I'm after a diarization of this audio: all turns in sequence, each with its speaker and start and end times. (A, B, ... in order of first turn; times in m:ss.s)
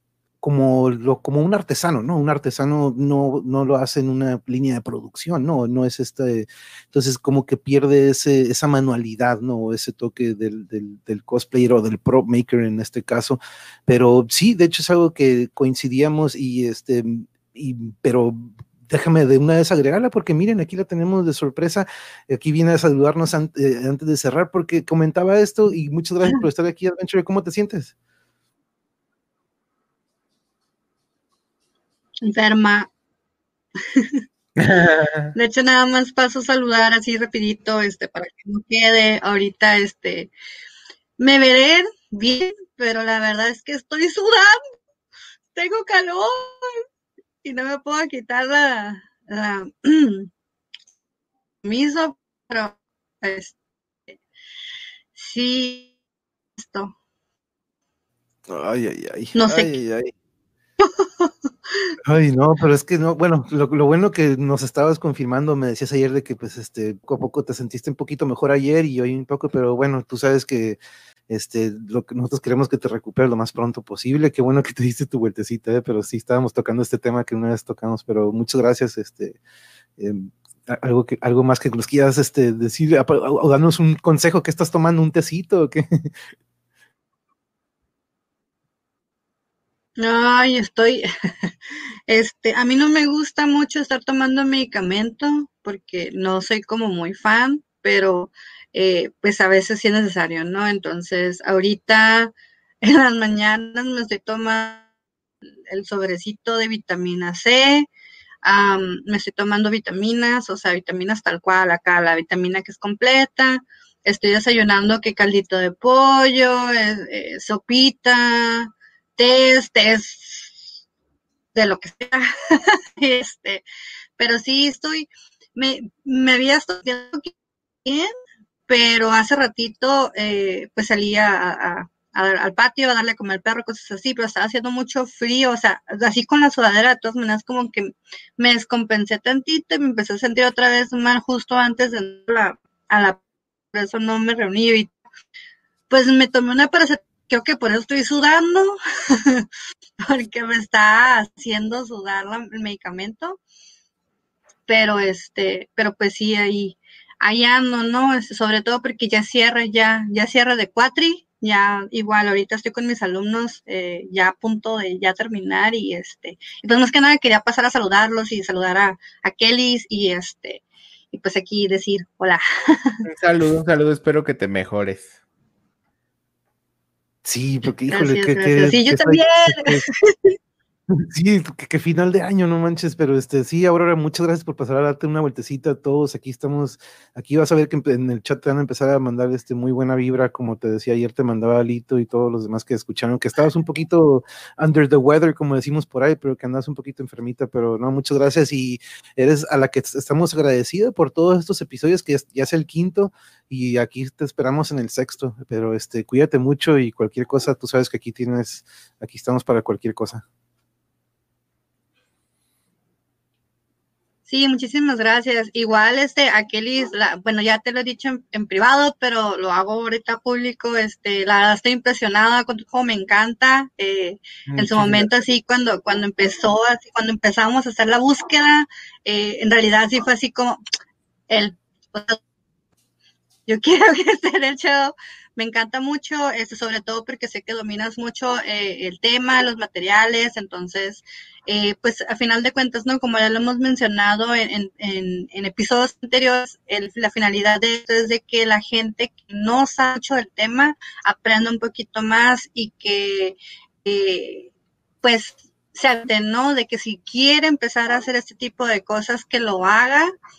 0:00.4-0:27.9 A
0:32.2-0:32.9 B
0:33.8-0:34.2 B
0:34.6-0:35.3 C
0:35.4-0:40.3 B
0:41.2-0:44.6 B
0:45.6-0:46.8 B
0:47.4-0:50.3 B
0:51.6-0:53.6 B
0:55.2-0:55.9 B
0:56.6-0:57.0 B
0:58.5-1:00.1 A
0:59.4-0:59.7 B
1:00.8-1:02.0 B
1:02.0-1:10.8 A
1:11.3-1:19.4 A
1:20.0-1:26.1 A
1:30.0-1:31.5 B
1:32.1-1:44.8 B
1:45.7-1:47.9 B
1:48.4-2:00.6 B
2:01.6-2:03.6 B
2:04.2-2:07.3 B
2:07.8-2:08.1 B
2:08.7-2:23.2 B
2:23.7-2:24.9 B
2:25.9-2:29.5 B
2:30.0-2:33.4 B
2:34.7-2:53.0 B
2:53.1-2:55.2 C
2:57.2-2:59.9 A
2:57.9-3:00.4 B
3:00.9-3:30.2 A
3:34.3-3:50.6 B
3:44.5-3:45.1 C
3:51.3-3:52.2 B
3:53.5-4:14.5 B
4:15.0-4:20.1 B